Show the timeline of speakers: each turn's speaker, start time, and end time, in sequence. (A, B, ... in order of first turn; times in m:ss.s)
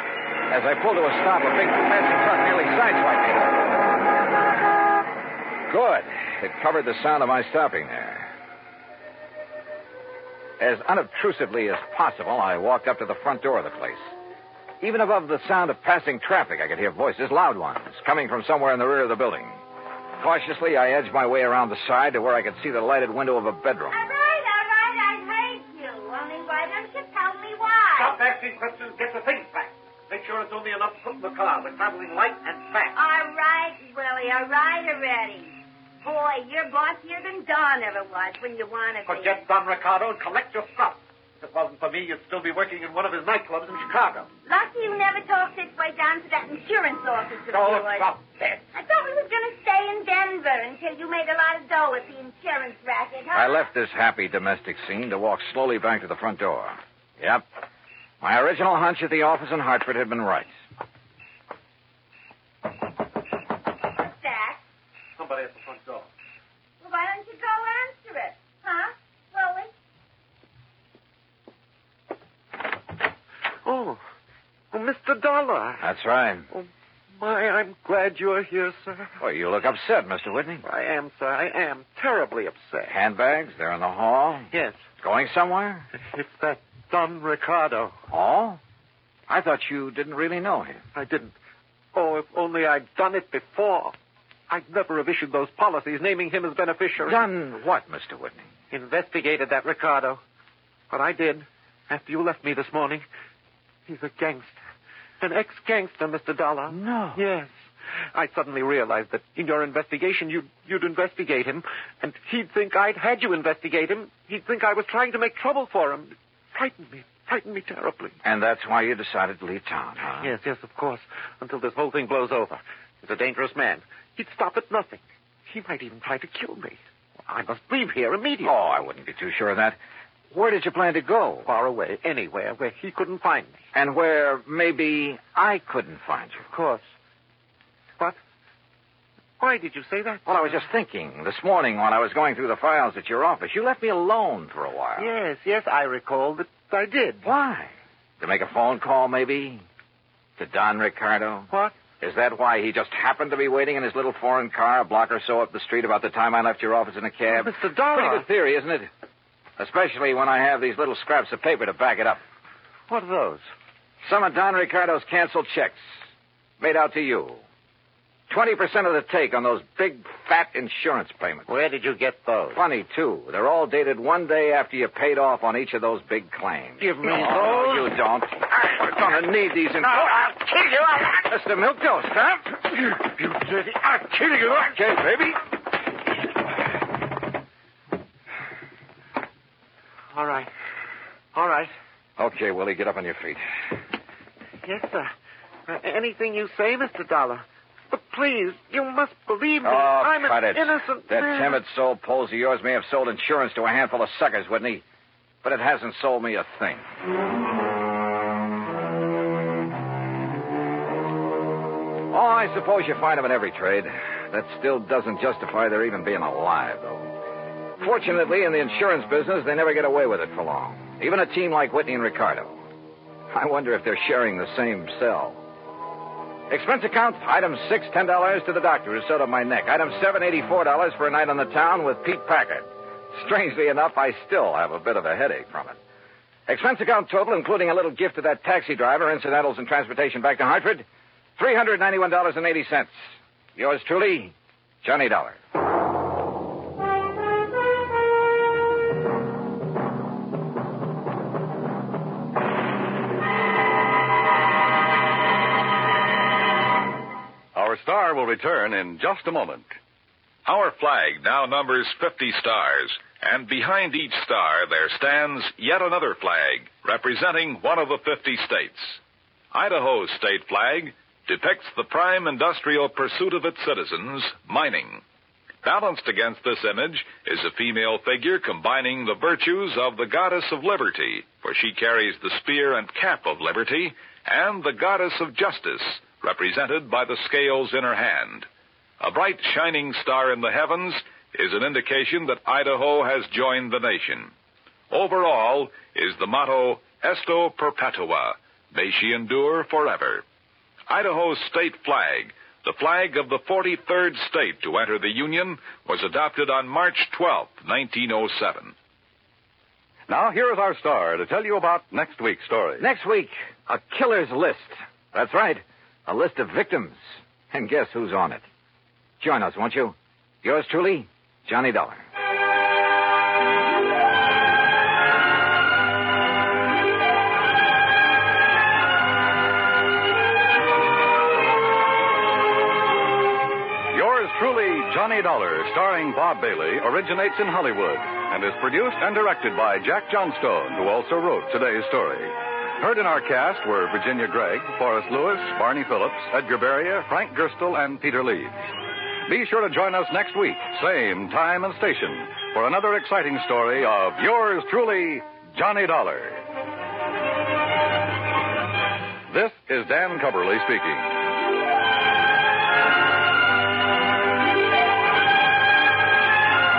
0:00.5-0:03.7 A
0:05.7-0:08.3 A
0:10.6-0:14.1 A
0:14.8-0:19.6 A
0:20.2-0:24.0 A
0:23.9-0:28.2 B
0:28.0-0:33.0 C
0:32.9-0:39.4 B
0:39.1-0:44.3 C
0:44.5-0:48.1 B
0:47.5-0:48.6 C
0:48.7-0:53.7 B
0:53.3-0:57.4 A
0:58.2-1:00.5 A
1:04.0-1:04.6 B
1:05.2-1:06.1 C
1:06.8-1:09.7 B
1:13.6-1:14.0 D
1:14.7-1:15.9 D
1:15.8-1:16.5 A
1:16.5-1:19.1 D
1:19.2-1:20.6 A
1:20.6-1:23.0 D
1:22.9-1:24.5 A
1:24.5-1:24.8 D
1:25.0-1:25.9 A
1:26.0-1:28.0 D
1:28.1-1:28.6 A
1:29.3-1:30.8 A
1:31.0-1:31.3 D
1:31.9-1:33.9 D
1:34.5-1:37.2 D
1:37.0-1:38.5 A
1:38.7-1:40.2 D
1:40.9-1:43.0 D
1:43.9-1:44.6 D
1:45.2-1:47.5 D
1:46.7-1:47.2 A
1:48.1-1:58.2 D
1:58.2-2:00.3 A
2:00.2-2:08.8 D
2:08.4-2:09.8 A
2:10.3-2:11.5 A
2:11.4-2:13.6 D
2:13.7-2:16.4 A
2:16.5-2:16.8 D
2:19.4-2:20.6 D
2:20.3-2:25.1 A
2:25.0-2:27.3 D
2:27.2-2:29.6 A
2:30.4-2:38.9 A
2:37.3-2:38.3 D
2:39.6-2:42.2 A
2:42.9-2:43.4 D
2:44.0-2:45.8 A
2:46.6-2:47.4 A
2:48.3-2:51.5 A
2:51.5-2:52.6 D
2:52.5-3:00.4 A
2:56.8-2:57.9 D
3:00.1-3:00.9 D
3:01.0-3:02.8 A
3:03.2-3:04.6 D
3:04.5-3:05.4 A
3:10.1-3:10.5 D
3:11.3-3:11.7 D
3:12.2-3:13.4 A
3:14.6-3:15.1 D
3:15.7-3:21.6 D
3:19.6-3:24.8 A
3:25.4-3:26.8 A
3:32.1-3:37.1 A
3:37.8-3:42.6 A
3:43.3-3:45.4 A
3:46.5-3:55.8 A
3:56.5-4:00.9 A
4:01.4-4:03.0 A
4:03.6-4:05.4 A
4:17.6-4:19.7 E
4:20.5-4:29.0 F
4:29.5-4:35.0 F
4:35.6-4:48.5 F
4:49.0-4:54.3 F
4:54.9-5:00.2 F
5:00.9-5:08.8 F
5:10.1-5:12.8 E
5:12.8-5:18.4 A
5:19.2-5:22.0 A
5:33.9-5:48.6 E
5:49.3-5:56.4 E
5:59.3-6:01.2 E